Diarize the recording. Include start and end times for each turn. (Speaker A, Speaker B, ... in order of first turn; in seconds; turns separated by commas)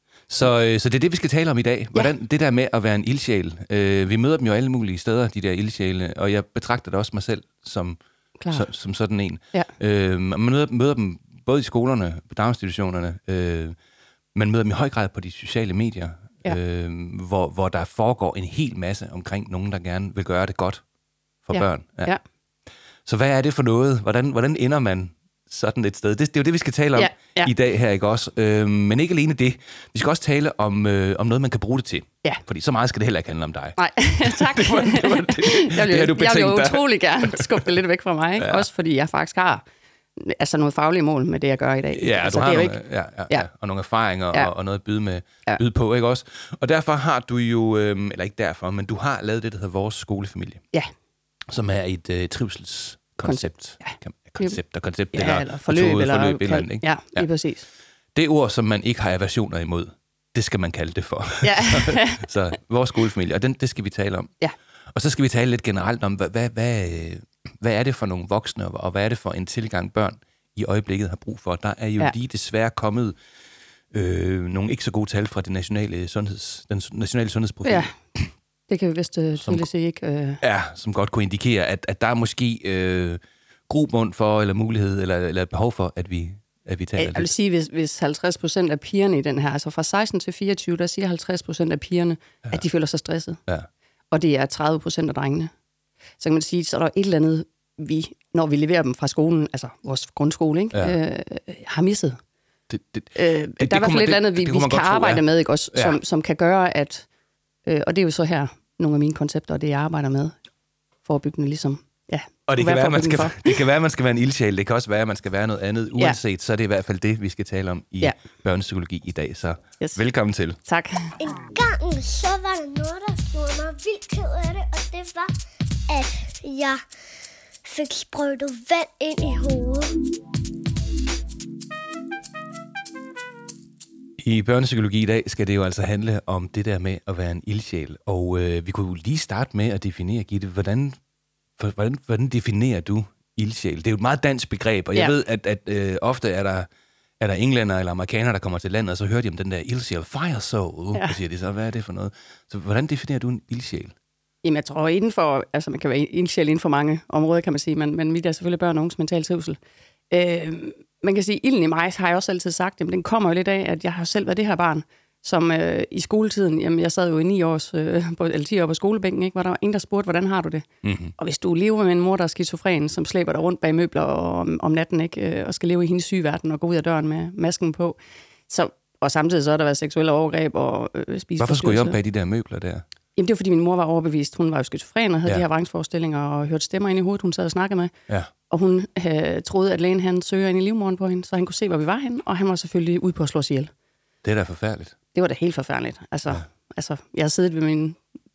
Speaker A: 0.3-8.0, Speaker B: 8.4-8.7, Speaker A: 8.5-13.8, Speaker A: 14.3-20.8, Speaker A: 21.4-22.1, Speaker B: 21.5-22.2, Speaker A: 23.1-37.7, Speaker B: 26.9-27.5, Speaker B: 33.8-39.6, Speaker A: 38.4-38.6, Speaker B: 40.2-42.8, Speaker A: 41.9-50.6, Speaker A: 51.5-57.3, Speaker B: 53.2-54.6, Speaker B: 55.1-57.7, Speaker A: 58.1-64.3, Speaker B: 61.4-62.2, Speaker A: 64.9-73.2, Speaker A: 73.9-78.3, Speaker B: 77.7-77.9, Speaker B: 78.7-80.4, Speaker A: 79.4-79.7, Speaker A: 80.4-87.3, Speaker B: 87.0-93.4, Speaker B: 94.1-95.5, Speaker B: 96.2-102.2, Speaker A: 102.7-106.0, Speaker B: 103.1-107.1, Speaker B: 107.7-110.4, Speaker B: 111.0-113.6, Speaker A: 112.5-120.6, Speaker B: 120.7-121.1, Speaker C: 121.2-125.3, Speaker C: 125.9-126.8, Speaker C: 127.7-130.0, Speaker A: 134.2-141.0, Speaker A: 141.6-146.7, Speaker A: 147.2-153.9, Speaker B: 154.4-159.6, Speaker B: 160.1-170.7, Speaker A: 170.8-171.1, Speaker B: 171.2-182.0, Speaker A: 181.4-182.8, Speaker B: 183.2-187.9, Speaker B: 188.5-193.7, Speaker A: 194.2-194.9, Speaker B: 195.1-198.0